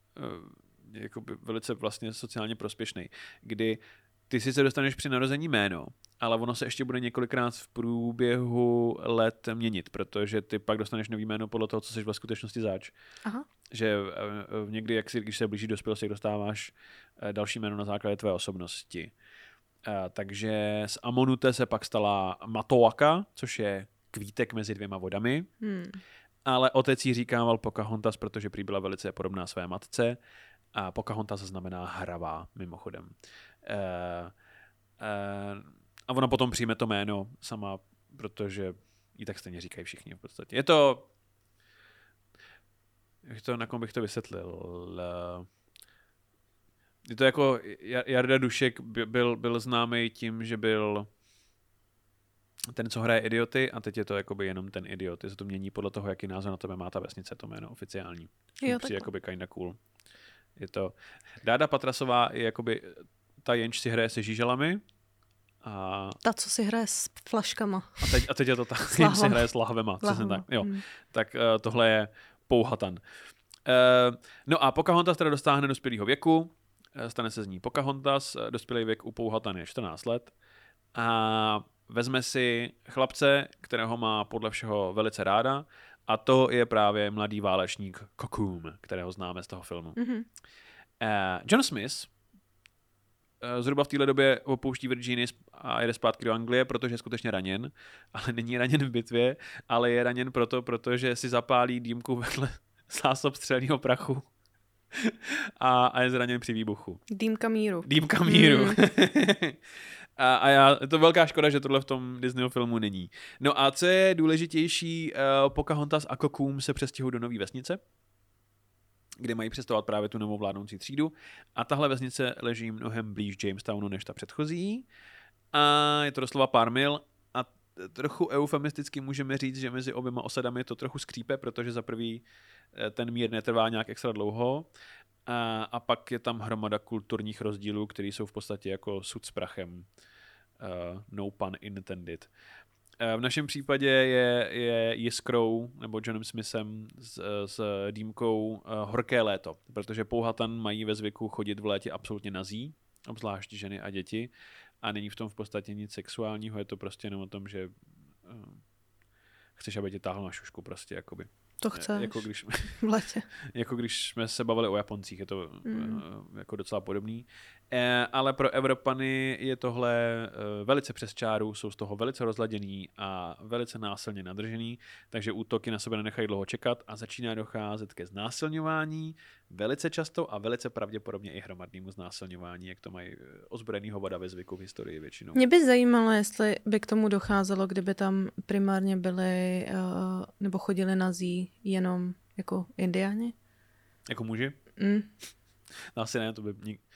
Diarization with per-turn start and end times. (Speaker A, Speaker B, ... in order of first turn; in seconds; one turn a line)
Speaker A: 0.1-12.9
Speaker A: 13.7-19.1
Speaker A: 19.8-25.5
Speaker B: 25.6-26.0
Speaker A: 26.4-30.2
Speaker A: 30.7-34.3
Speaker A: 35.0-41.1
Speaker A: 43.2-45.5
Speaker A: 47.0-51.1
Speaker A: 52.7-59.8
Speaker B: 58.6-59.0
Speaker A: 60.6-64.8
Speaker A: 65.6-66.2
Speaker B: 66.2-68.1
Speaker A: 68.0-73.0
Speaker B: 68.9-69.5
Speaker B: 70.0-70.8
Speaker A: 73.6-80.3
Speaker A: 80.9-90.0
Speaker B: 90.0-90.2
Speaker A: 91.0-92.1
Speaker A: 93.4-104.3
Speaker A: 104.9-107.0
Speaker B: 107.1-108.8
Speaker A: 107.8-117.8
Speaker A: 119.2-124.8
Speaker A: 125.5-134.7
Speaker A: 135.2-139.9
Speaker A: 140.6-142.3
Speaker A: 143.0-154.3
Speaker A: 154.8-157.7
Speaker A: 158.2-158.6
Speaker A: 159.6-162.8
Speaker B: 161.6-162.2
Speaker B: 162.8-163.2
Speaker A: 163.5-185.4
Speaker B: 165.6-166.0
Speaker B: 185.3-193.3
Speaker A: 194.1-194.6
Speaker B: 194.8-195.1
Speaker A: 195.9-196.8